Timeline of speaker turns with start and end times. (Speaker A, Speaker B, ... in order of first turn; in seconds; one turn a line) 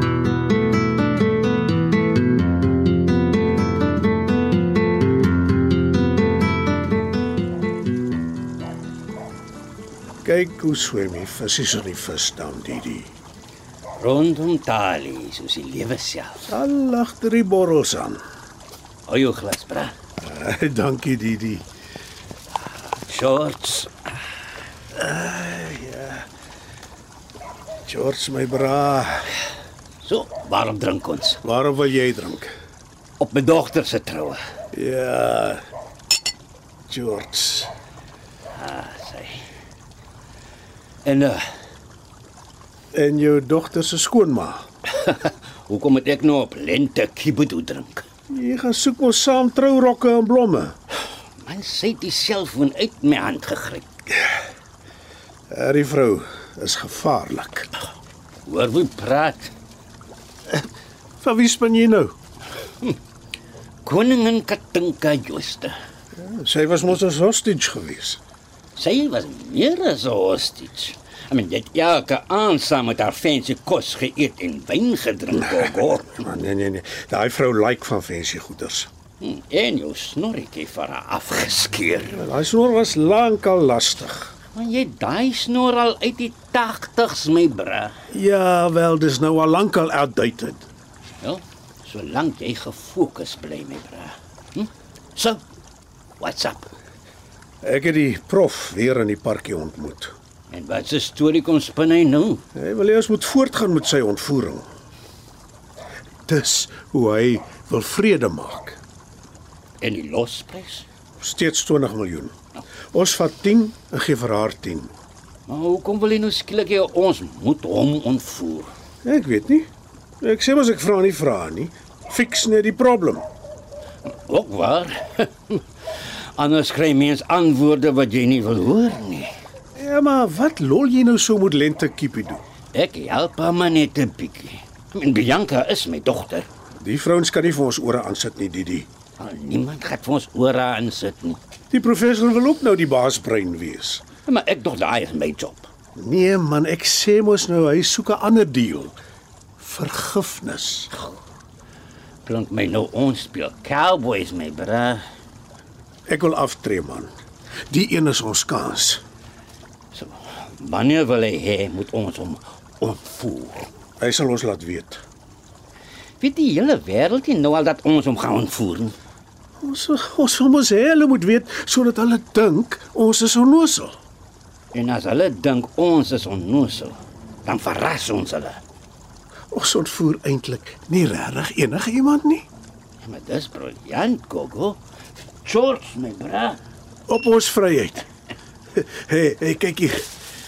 Speaker A: 10.2-13.1
Speaker B: 13.9-16.4
Speaker A: 16.5-18.2
Speaker B: 19.1-19.9
Speaker A: 20.2-21.6
Speaker B: 22.7-23.9
Speaker A: 24.9-26.2
Speaker A: 27.9-29.3
Speaker B: 30.0-31.4
Speaker A: 31.4-32.5
Speaker B: 33.2-34.4
Speaker A: 34.7-35.6
Speaker A: 36.9-37.7
Speaker B: 38.5-39.5
Speaker B: 41.0-41.4
Speaker A: 42.9-44.7
Speaker B: 45.0-48.0
Speaker A: 48.3-50.8
Speaker B: 51.4-53.9
Speaker A: 55.5-57.7
Speaker B: 58.5-59.5
Speaker A: 61.2-62.1
Speaker B: 63.8-65.7
Speaker A: 66.2-68.2
Speaker B: 68.7-76.2
Speaker A: 75.6-78.9
Speaker B: 79.2-82.2
Speaker A: 82.1-84.3
Speaker B: 84.5-87.9
Speaker A: 88.1-90.7
Speaker B: 91.2-95.4
Speaker B: 96.2-96.7
Speaker A: 97.6-100.1
Speaker B: 100.5-102.4
Speaker A: 102.5-104.7
Speaker A: 106.3-108.8
Speaker B: 109.8-110.8
Speaker A: 111.2-112.3
Speaker A: 112.9-114.9
Speaker B: 115.5-118.7
Speaker A: 119.0-119.7
Speaker A: 120.2-123.2
Speaker B: 124.0-129.3
Speaker A: 129.7-132.4
Speaker B: 132.7-136.5
Speaker A: 136.8-138.9
Speaker B: 139.2-141.4
Speaker A: 141.7-144.0
Speaker B: 144.2-145.7
Speaker A: 145.9-149.0
Speaker A: 149.6-150.9
Speaker B: 152.2-155.0
Speaker A: 156.1-157.1
Speaker A: 157.7-159.0
Speaker B: 159.9-163.7
Speaker A: 164.0-165.0
Speaker B: 166.2-168.9
Speaker A: 169.6-173.9
Speaker B: 174.7-178.6
Speaker A: 179.5-182.4
Speaker B: 183.0-184.8
Speaker B: 185.4-186.6
Speaker A: 187.1-188.0
Speaker A: 188.7-190.1